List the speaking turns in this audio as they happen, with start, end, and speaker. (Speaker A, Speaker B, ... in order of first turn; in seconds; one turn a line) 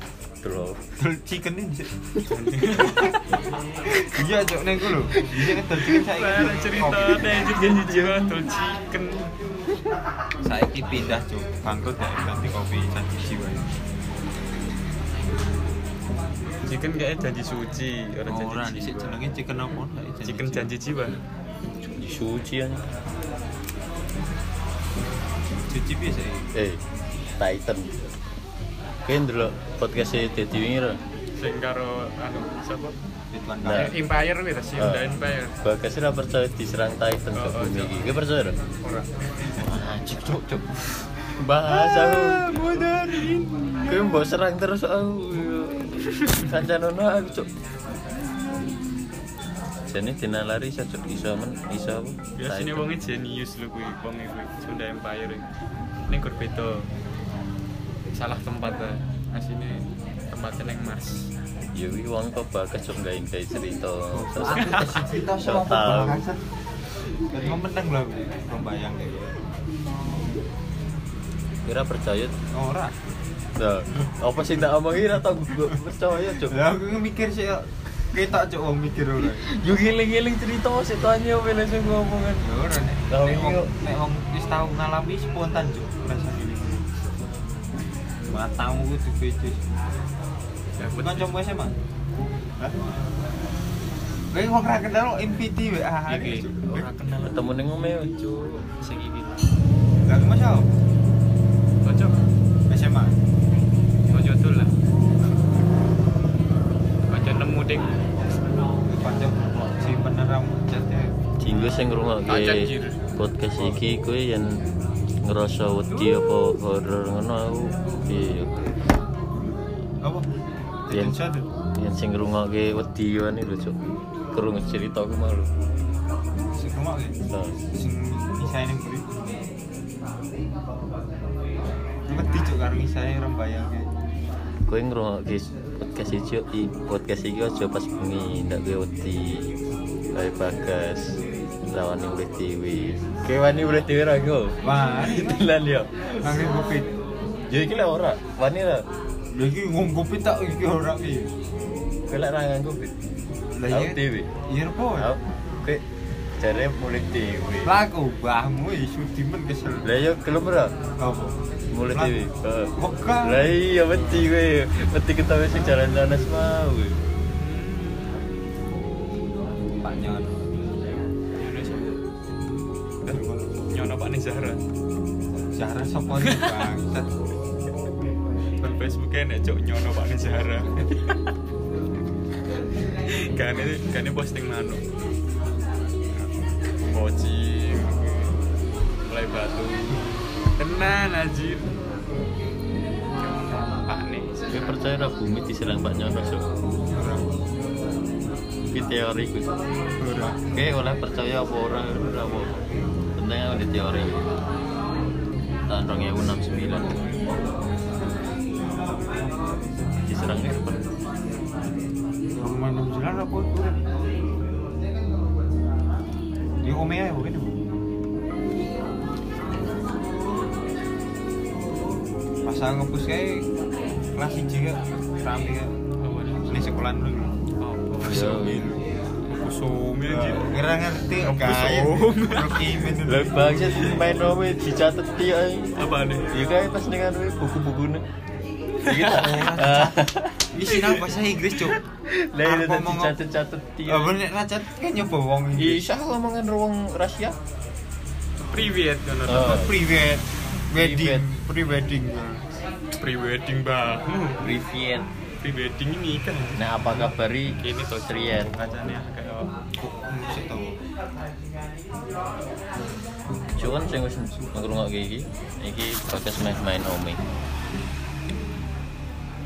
Speaker A: 0.4-0.8
Speaker B: 1.0-1.9
Speaker C: 2.2-3.2
Speaker B: 3.9-7.4
Speaker A: 5.3-5.8
Speaker C: 5.9-9.3
Speaker A: 7.4-8.3
Speaker B: 10.4-13.6
Speaker C: 16.6-19.2
Speaker B: 18.3-20.7
Speaker C: 20.2-21.2
Speaker A: 21.9-22.8
Speaker B: 25.7-26.5
Speaker A: 26.5-26.8
Speaker A: 27.4-27.9
Speaker A: 29.0-31.0
Speaker C: 31.4-33.0
Speaker B: 33.3-34.0
Speaker A: 33.6-33.9
Speaker C: 33.6-35.6
Speaker A: 34.8-38.6
Speaker C: 37.3-38.1
Speaker C: 38.8-39.1
Speaker A: 39.6-42.7
Speaker B: 41.6-44.1
Speaker A: 43.9-47.5
Speaker C: 46.1-46.6
Speaker A: 49.9-52.9
Speaker C: 52.3-55.5
Speaker C: 56.1-56.9
Speaker C: 58.1-61.3
Speaker A: 61.7-66.2
Speaker B: 64.1-66.4
Speaker C: 64.5-65.0
Speaker B: 67.3-69.4
Speaker A: 71.7-72.3
Speaker B: 72.5-72.9
Speaker A: 73.5-76.6
Speaker B: 76.4-79.5
Speaker A: 79.4-82.5
Speaker B: 82.4-86.8
Speaker A: 83.1-83.7
Speaker B: 88.3-89.6
Speaker C: 90.8-91.4
Speaker B: 91.0-91.7
Speaker B: 94.3-96.9
Speaker C: 96.1-99.4
Speaker A: 97.2-98.1
Speaker B: 100.0-100.7
Speaker C: 101.8-102.2
Speaker B: 102.7-103.2
Speaker C: 104.1-104.7
Speaker C: 107.1-107.9
Speaker B: 108.9-111.7
Speaker A: 111.4-114.6
Speaker C: 112.2-113.0
Speaker A: 115.2-118.5
Speaker B: 120.0-120.3
Speaker B: 120.9-121.5
Speaker A: 120.9-121.2
Speaker A: 121.7-123.8
Speaker A: 124.3-125.5
Speaker B: 126.5-129.1
Speaker A: 127.3-127.6
Speaker B: 132.1-133.9
Speaker A: 134.7-139.5
Speaker A: 140.1-146.5
Speaker B: 144.6-145.3
Speaker B: 146.2-146.9
Speaker A: 147.5-148.8
Speaker B: 149.3-151.3
Speaker A: 152.1-152.9
Speaker B: 153.5-155.1
Speaker A: 153.7-154.3
Speaker A: 155.0-155.8
Speaker A: 156.4-157.8
Speaker B: 157.6-159.9
Speaker A: 159.8-160.7
Speaker B: 161.0-162.2
Speaker A: 161.7-167.0
Speaker B: 162.8-163.6
Speaker C: 163.9-164.3
Speaker C: 167.3-168.2
Speaker B: 169.8-170.4
Speaker C: 171.4-172.0
Speaker C: 173.0-174.6
Speaker B: 173.1-173.6
Speaker B: 175.5-177.1
Speaker C: 176.2-176.7
Speaker C: 178.6-181.2
Speaker C: 183.0-184.8
Speaker C: 186.9-188.2
Speaker C: 189.1-191.8
Speaker C: 193.2-194.6
Speaker A: 194.5-196.4
Speaker B: 196.9-197.3
Speaker A: 198.7-199.5
Speaker B: 200.0-200.4
Speaker A: 200.5-202.6
Speaker A: 203.2-204.4
Speaker A: 205.7-207.0
Speaker A: 210.0-210.9
Speaker B: 212.4-213.8
Speaker B: 216.6-217.6
Speaker B: 222.4-223.5
Speaker B: 224.1-225.7
Speaker C: 226.0-226.6
Speaker B: 226.4-227.4
Speaker C: 227.6-228.6
Speaker B: 228.0-228.8
Speaker A: 228.0-228.7
Speaker C: 229.2-230.5
Speaker B: 230.1-233.5
Speaker C: 231.2-232.8
Speaker A: 233.0-238.0
Speaker C: 235.8-236.3
Speaker C: 238.8-239.4
Speaker A: 238.8-241.1
Speaker B: 238.9-241.8
Speaker A: 241.6-244.2
Speaker B: 242.4-243.2
Speaker B: 243.8-245.9
Speaker A: 245.6-247.4
Speaker C: 248.5-249.7
Speaker A: 249.2-249.7
Speaker B: 249.4-252.4
Speaker A: 250.7-251.2
Speaker C: 253.0-254.4
Speaker A: 254.4-255.1
Speaker C: 255.4-256.7
Speaker A: 256.6-258.5
Speaker C: 257.6-259.5
Speaker B: 259.8-260.8
Speaker A: 263.6-267.2